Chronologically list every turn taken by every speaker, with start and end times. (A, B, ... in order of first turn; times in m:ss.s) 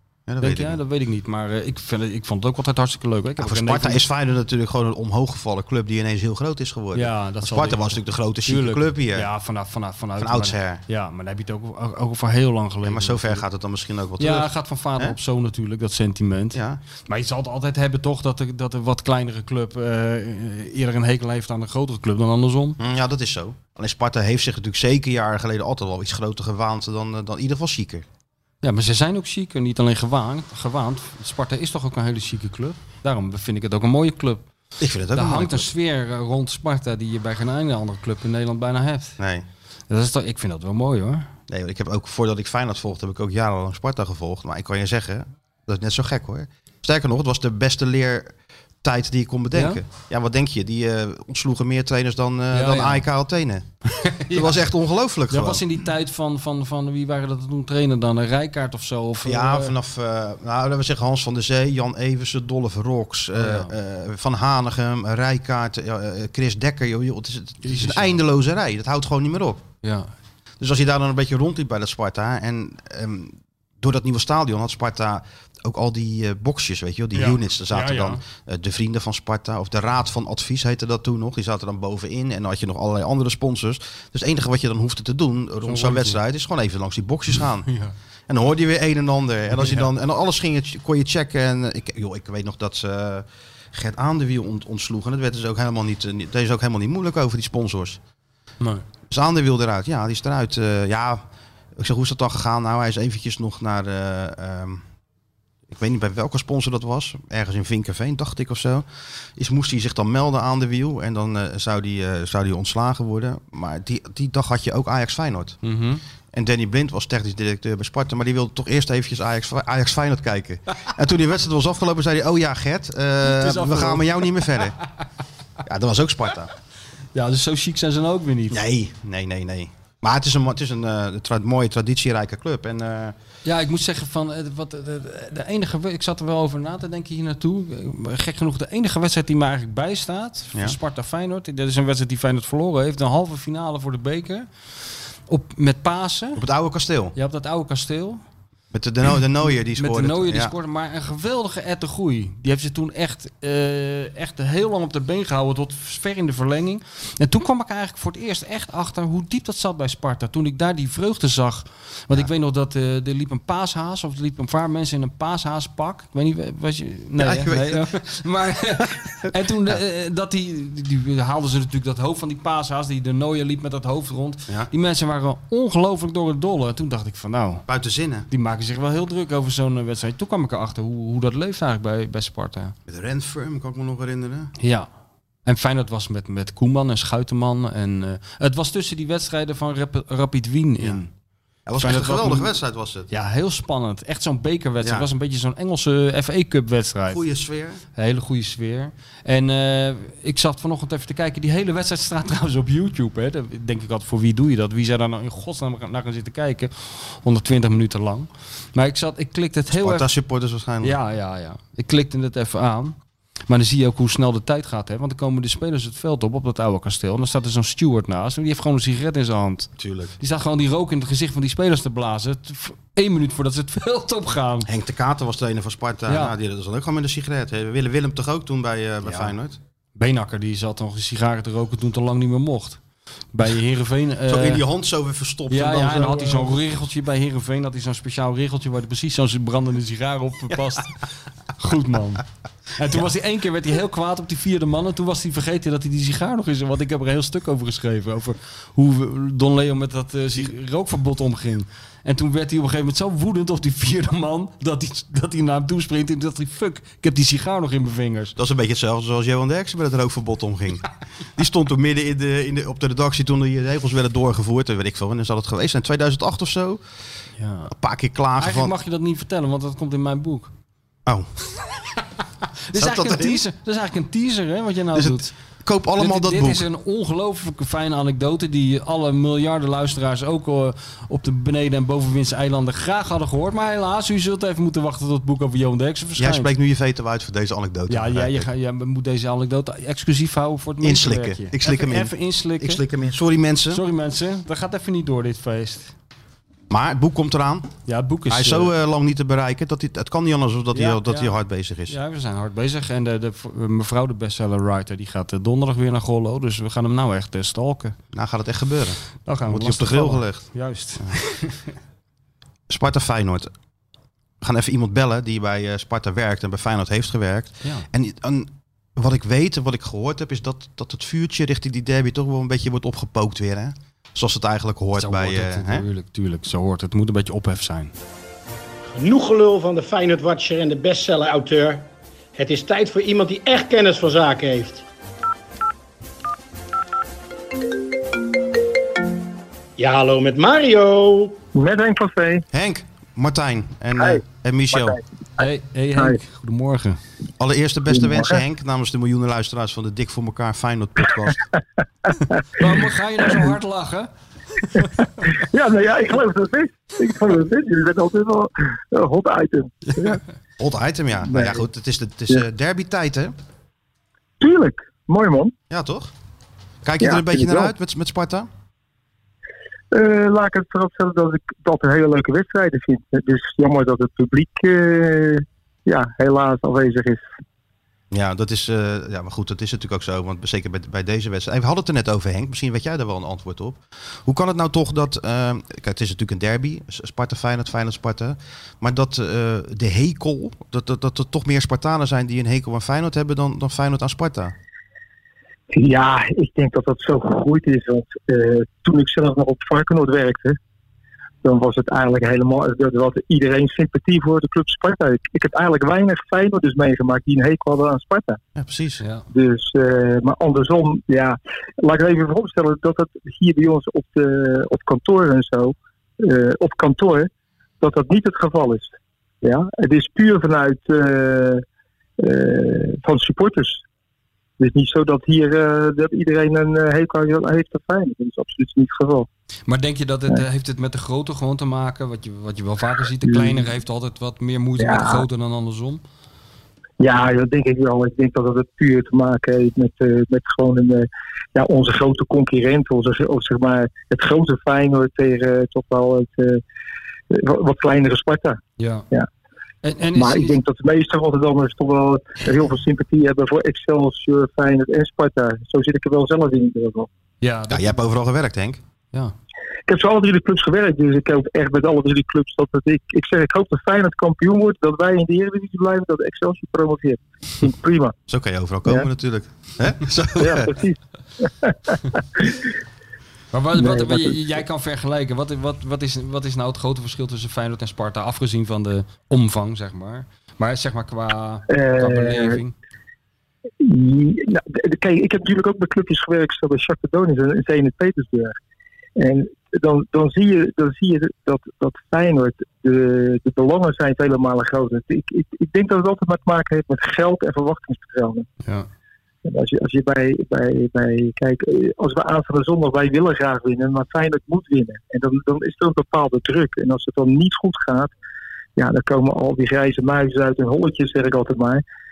0:00.3-0:00.8 A
0:00.4-0:04.0 B
0:03.4-0:09.3 A
0:06.9-0:13.4 B
0:10.2-0:10.8 A
0:12.8-0:15.2 A
0:14.2-0:22.8 B
0:16.5-0:16.8 A
0:22.8-0:28.0 A
0:28.6-0:34.5 B
0:34.8-0:35.7 A
0:35.1-0:39.2 B
0:39.2-0:39.4 A
0:39.9-0:41.3 B
0:41.5-0:55.6 A
0:49.5-0:49.8 B
0:52.5-0:53.0 B
0:53.9-0:54.6 B
0:55.3-0:59.7 B
0:59.2-1:09.6 A
1:03.4-1:03.7 B
1:07.6-1:08.2 B
1:09.8-1:10.1 B
1:10.6-1:27.7 A
1:17.1-1:18.2 B
1:25.6-1:26.2 B
1:27.6-1:27.9 B
1:28.3-1:38.0 A
1:29.6-1:29.9 B
1:39.1-1:41.2 A
1:41.8-1:44.8 A
1:45.7-1:55.6 A
1:55.6-1:56.0 B
1:56.3-2:04.8 A
2:03.2-2:04.5 B
2:05.6-2:06.5 A
2:07.1-2:08.6 B
2:08.5-2:13.1 A
2:13.4-2:24.5 B
2:25.3-2:26.4 B
2:26.4-2:27.1 A
2:27.1-2:28.2 B
2:28.7-2:30.5 A
2:29.7-2:57.6 B
2:47.2-2:48.0 A
2:48.8-2:49.3 A
2:57.7-2:58.3 A
2:58.3-3:02.7 B
3:02.9-3:04.5 A
3:04.6-3:04.9 B
3:05.4-3:11.1 B
3:11.6-3:13.1 A
3:11.8-3:12.5 B
3:13.1-3:17.2 B
3:14.8-3:15.1 A
3:17.1-3:17.8 A
3:17.9-3:30.1 B
3:29.7-3:31.0 A
3:30.8-3:33.0 B
3:33.5-3:44.7 B
3:39.8-3:40.1 A
3:44.6-3:49.6 A
3:46.1-3:46.3 B
3:49.0-3:49.3 B
3:50.0-3:52.8 B
3:53.3-3:54.6 B
3:54.3-3:56.6 A
3:55.5-4:01.0 B
4:01.5-4:02.2 B
4:02.8-4:18.3 B
4:18.4-4:26.8 A
4:27.4-4:27.7 B
4:27.7-4:28.7 A
4:28.4-4:30.5 B
4:32.7-4:35.3 B
4:32.7-4:33.4 A
4:34.9-4:36.6 A
4:36.0-4:46.5 B
4:46.2-4:48.5 A
4:47.9-4:52.8 B
4:50.8-4:53.8 A
4:53.7-4:55.9 B
4:56.7-4:57.7 A
4:57.9-4:58.7 B
4:58.3-5:02.0 A
5:00.7-5:01.4 B
5:01.9-5:08.0 B
5:08.1-5:10.4 A
5:09.2-5:11.7 B
5:12.7-5:13.5 A
5:14.4-5:25.8 A
5:24.9-5:27.9 B
5:28.9-5:34.8 C
5:39.8-5:41.4 C
5:41.5-5:42.4 D
5:42.5-5:45.0 A
5:44.7-5:45.0 D
5:45.4-5:47.0 B
5:47.4-5:51.4 A
5:47.9-5:48.4 D
5:52.6-5:55.3 B
5:55.3-6:00.2 D
6:00.6-6:03.3 A
6:01.3-6:01.6 D
6:04.4-6:05.5 D
6:05.7-6:06.1 A
6:06.8-6:08.5 A
6:07.0-6:07.7 D
6:09.9-6:17.3 D
6:18.1-6:34.5 A
6:35.7-6:40.6 D
6:41.4-6:48.4 D
6:48.6-6:49.0 A
6:49.3-6:57.3 D
6:57.8-7:01.6 D
7:02.2-7:03.8 D
7:04.6-7:09.3 D
7:09.7-7:16.0 B
7:13.2-7:13.6 D
7:14.8-7:15.2 D
7:17.0-7:26.6 D
7:27.3-7:28.6 D
7:28.8-7:29.0 B
7:29.8-7:30.6 B
7:30.1-7:37.1 D
7:37.4-7:38.0 B
7:37.7-7:38.8 A
7:39.9-7:48.1 D
7:48.3-7:50.8 A
7:50.4-7:52.6 D
7:53.5-8:02.7 B
7:53.8-7:54.4 D
8:01.7-8:02.6 D
8:03.8-8:08.5 D
8:09.2-8:18.5 D
8:19.4-8:28.1 D
8:28.8-8:31.8 D